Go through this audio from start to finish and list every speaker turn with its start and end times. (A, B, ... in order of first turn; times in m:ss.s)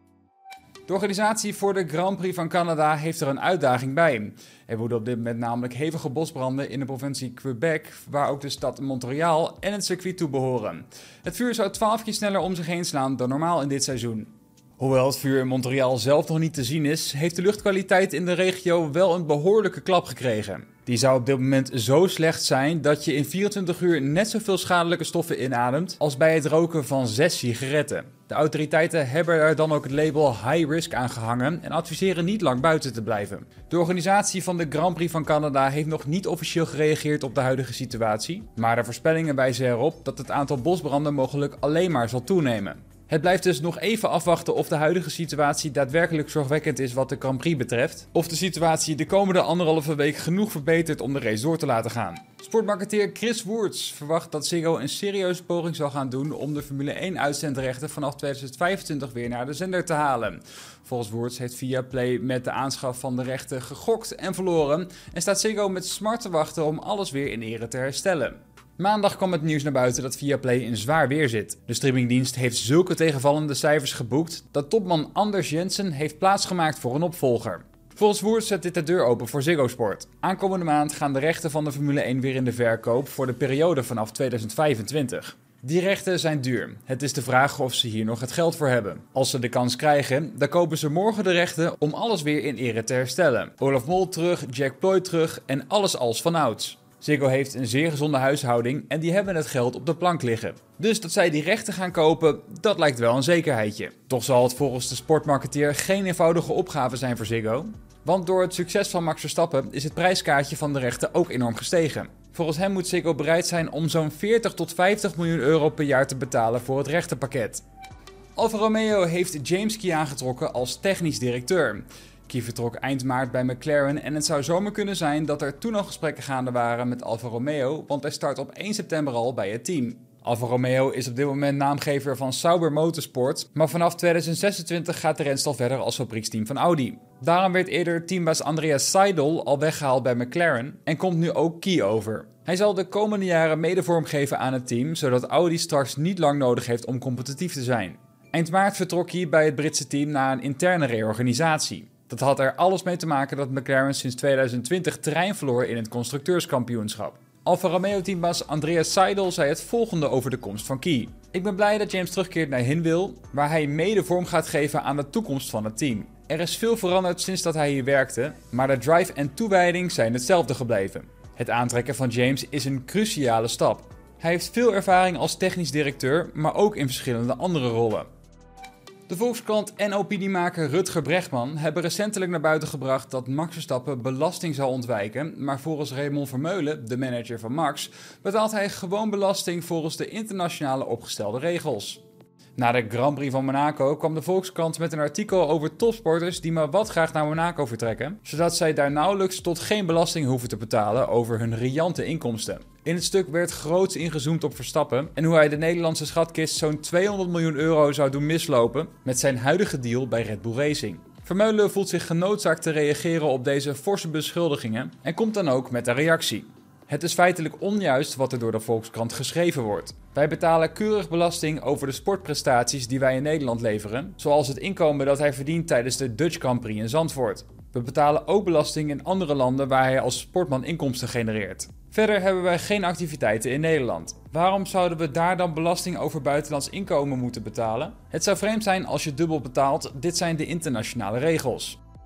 0:00.9-1:57.6 A
1:58.4-2:58.1 A
2:59.1-3:12.0 A
3:12.6-4:01.8 A